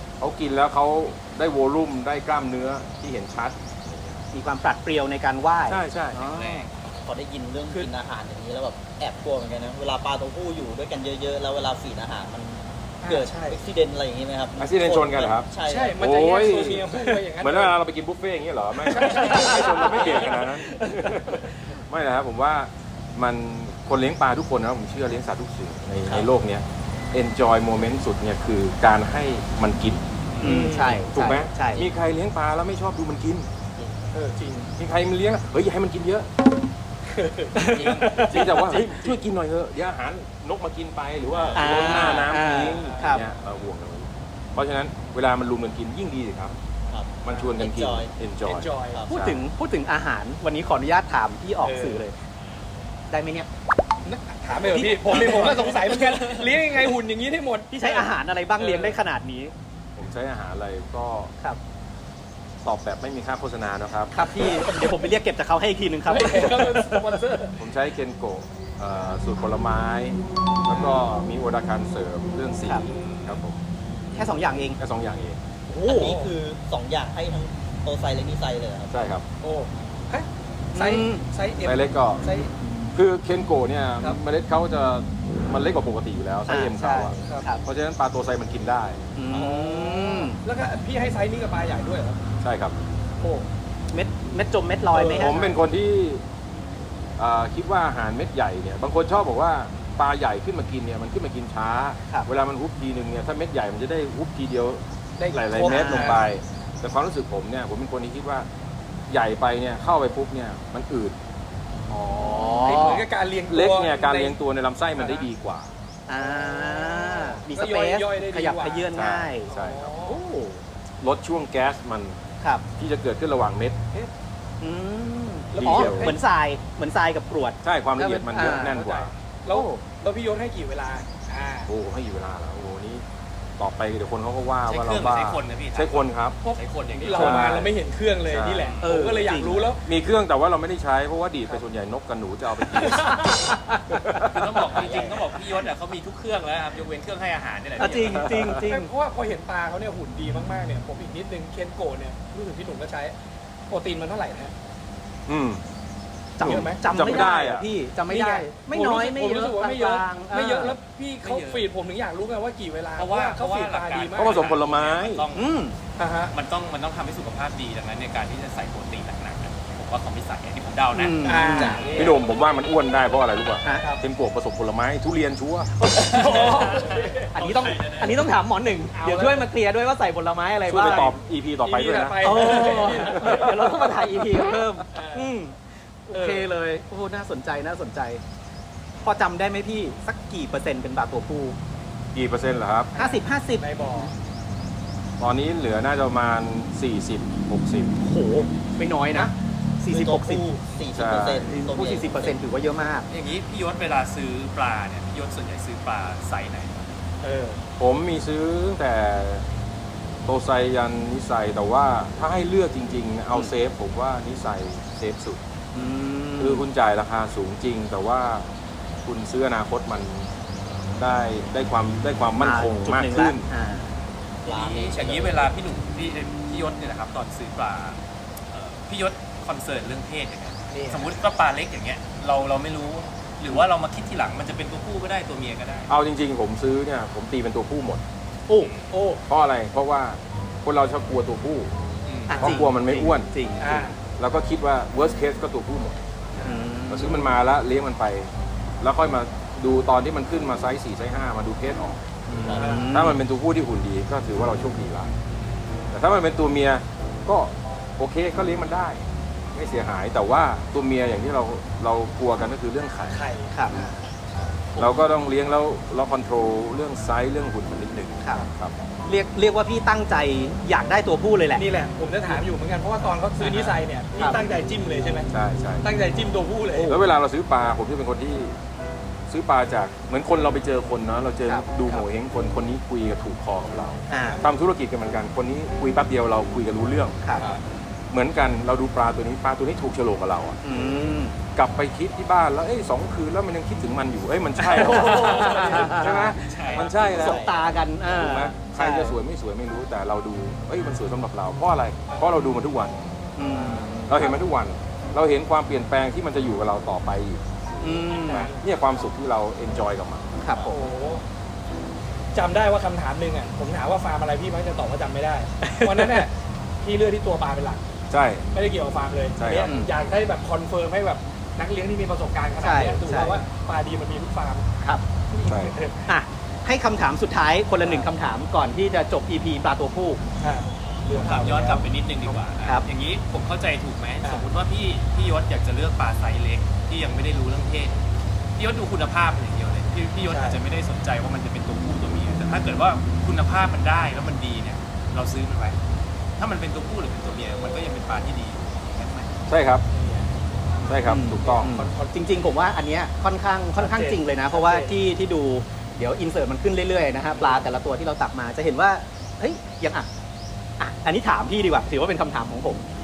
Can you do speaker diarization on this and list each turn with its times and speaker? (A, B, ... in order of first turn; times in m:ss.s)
0:00.2-0:04.2 A
0:04.3-0:06.7 B
0:05.7-0:06.2 A
0:06.1-0:06.7 C
0:06.8-0:16.1 D
0:13.1-0:13.6 E
0:14.6-0:30.0 A
0:15.6-0:17.8 E
0:18.8-0:21.4 E
0:19.1-0:20.0 B
0:26.0-0:26.3 B
0:30.4-0:31.9 B
0:30.4-0:31.0 E
0:31.1-0:33.5 A
0:34.1-0:34.7 E
0:34.8-0:36.3 A
0:37.1-0:39.1 E
0:37.7-0:46.6 A
0:41.3-0:42.3 D
0:41.5-0:43.2 B
0:41.8-0:43.2 E
0:46.9-0:48.1 D
0:47.2-0:49.4 A
0:47.3-0:47.5 E
0:48.4-0:49.0 E
0:49.1-0:52.2 B
0:51.6-0:52.0 E
0:53.1-0:53.5 B
0:54.0-0:59.0 E
0:54.5-0:56.3 B
0:57.7-0:59.5 B
1:00.0-1:01.3 A
1:02.6-1:04.1 A
1:04.1-1:07.0 B
1:06.1-1:07.6 E
1:07.6-1:13.6 A
1:12.9-1:13.4 C
1:14.1-1:14.8 B
1:14.8-1:15.4 A
1:15.7-1:16.1 B
1:15.8-1:18.9 D
1:16.0-1:16.3 E
1:18.9-1:19.2 A
1:19.4-1:22.5 E
1:20.8-1:21.2 B
1:21.6-1:22.2 A
1:22.9-1:29.0 A
1:26.5-1:27.6 B
1:29.2-1:30.4 B
1:29.3-1:32.2 E
1:32.4-1:32.8 A
1:33.2-1:33.5 E
1:33.9-1:35.3 B
1:34.9-1:35.6 E
1:35.1-1:36.2 A
1:37.2-1:48.5 A
1:45.2-1:46.2 E
1:45.6-1:46.2 B
1:49.1-1:51.2 A
1:51.9-1:53.0 B
1:52.2-1:54.4 E
1:53.5-1:55.7 A
1:54.9-1:55.3 E
1:56.1-1:59.5 B
1:56.1-1:58.9 E
1:58.9-2:00.0 A
1:59.5-2:00.2 E
2:00.0-2:00.6 B
2:01.0-2:02.2 A
2:02.4-2:02.6 B
2:02.8-2:03.8 A
2:04.6-2:08.8 B
2:05.5-2:06.2 A
2:05.5-2:06.2 E
2:07.6-2:09.1 A
2:08.7-2:11.7 E
2:09.5-2:09.8 B
2:11.7-2:13.0 A
2:13.6-2:16.4 A
2:14.6-2:17.6 C
2:16.4-2:19.8 E
2:17.1-2:17.7 A
2:18.3-2:18.8 A
2:18.8-2:19.7 B
2:19.8-2:23.2 A
2:22.8-2:24.0 E
2:22.9-2:23.3 B
2:23.9-2:24.6 A
2:24.2-2:28.5 C
2:24.6-2:25.4 D
2:27.8-2:28.9 B
2:28.0-2:28.7 A
2:28.6-2:33.1 E
2:33.7-2:34.5 E
2:35.3-2:35.6 A
2:36.4-2:40.8 B
2:36.4-2:37.0 E
2:36.4-2:37.7 A
2:38.0-2:44.4 E
2:41.2-2:41.7 C
2:43.0-2:45.5 C
2:44.1-2:45.3 A
2:45.3-2:45.8 B
2:46.0-2:46.3 E
2:46.3-2:52.0 C
2:50.9-2:51.9 B
2:51.2-2:52.2 E
2:51.9-2:55.7 A
2:53.7-2:54.0 E
2:55.8-2:56.5 B
2:56.0-2:57.3 E
2:56.2-2:58.2 C
2:57.3-3:01.1 B
2:58.8-2:59.5 E
3:00.6-3:03.5 A
3:01.6-3:03.7 E
3:02.2-3:08.2 B
3:04.9-3:05.4 E
3:06.1-3:06.5 E
3:09.0-3:11.6 B
3:12.1-3:12.9 A
3:12.9-3:14.1 E
3:12.9-3:13.6 B
3:15.2-3:17.9 A
3:18.0-3:20.4 B
3:19.9-3:22.4 D
3:20.9-3:21.6 A
3:21.4-3:23.1 B
3:23.1-3:26.9 C
3:27.2-3:27.6 E
3:27.8-3:29.4 A
3:30.2-3:35.4 A
3:35.7-3:36.7 B
3:36.4-3:38.5 A
3:39.0-3:40.3 A
3:41.0-3:43.5 A
3:42.4-3:43.9 B
3:44.4-3:45.5 D
3:44.4-3:48.0 C
3:48.5-3:55.9 C
3:50.7-3:51.1 E
3:55.9-3:58.0 A
3:58.5-3:58.7 B
3:58.6-3:58.9 C
3:59.3-4:01.7 A
4:02.0-4:02.4 C
4:02.3-4:03.9 B
4:02.4-4:03.3 A
4:03.6-4:04.0 E
4:04.2-4:06.0 A
4:06.4-4:07.3 B
4:06.9-4:12.0 A
4:12.3-4:13.2 B
4:12.4-4:12.8 D
4:12.5-4:12.9 E
4:12.9-4:15.1 A
4:15.9-4:23.2 A
4:23.1-4:24.4 E
4:23.5-4:23.9 B
4:24.8-4:28.8 A
4:29.0-4:31.6 B
4:31.5-4:35.3 E
4:33.4-4:34.4 B
4:35.3-4:35.9 A
4:35.8-4:37.0 E
4:36.9-4:38.6 A
4:39.3-4:47.2 A
4:41.4-4:42.1 B
4:44.1-4:44.4 E
4:44.1-4:44.4 B
4:47.2-4:47.5 B
4:48.1-4:50.6 A
4:50.6-4:51.4 B
4:51.6-4:57.4 A
4:54.6-4:56.5 B
4:55.2-4:56.9 C
4:56.7-4:57.7 D
4:57.0-4:59.2 B
4:58.0-5:03.0 A
5:02.1-5:02.5 E
5:03.4-5:04.4 B
5:03.5-5:03.9 E
5:04.1-5:07.4 A
5:07.8-5:08.5 B
5:07.8-5:09.1 E
5:08.3-5:10.3 A
5:10.4-5:10.8 B
5:10.7-5:11.2 E
5:12.3-5:17.8 E
5:15.7-5:16.2 B
5:18.1-5:18.5 A
5:18.5-5:24.7 E
5:19.4-5:19.7 A
5:19.6-5:19.9 B
5:22.6-5:23.4 B
5:25.3-5:26.1 E
5:25.5-5:25.8 A
5:26.1-5:30.2 B
5:27.8-5:28.1 E
5:30.4-5:31.9 E
5:31.2-5:38.0 C
5:34.2-5:34.5 E
5:38.6-5:45.8 C
5:40.2-5:40.6 E
5:46.4-5:49.3 C
5:47.4-5:47.9 E
5:49.5-5:49.8 A
5:49.9-5:50.3 E
5:50.8-5:51.8 A
5:51.0-6:00.1 B
5:51.4-5:52.2 E
5:53.8-5:54.9 E
5:57.4-5:57.7 E
6:00.8-6:02.8 B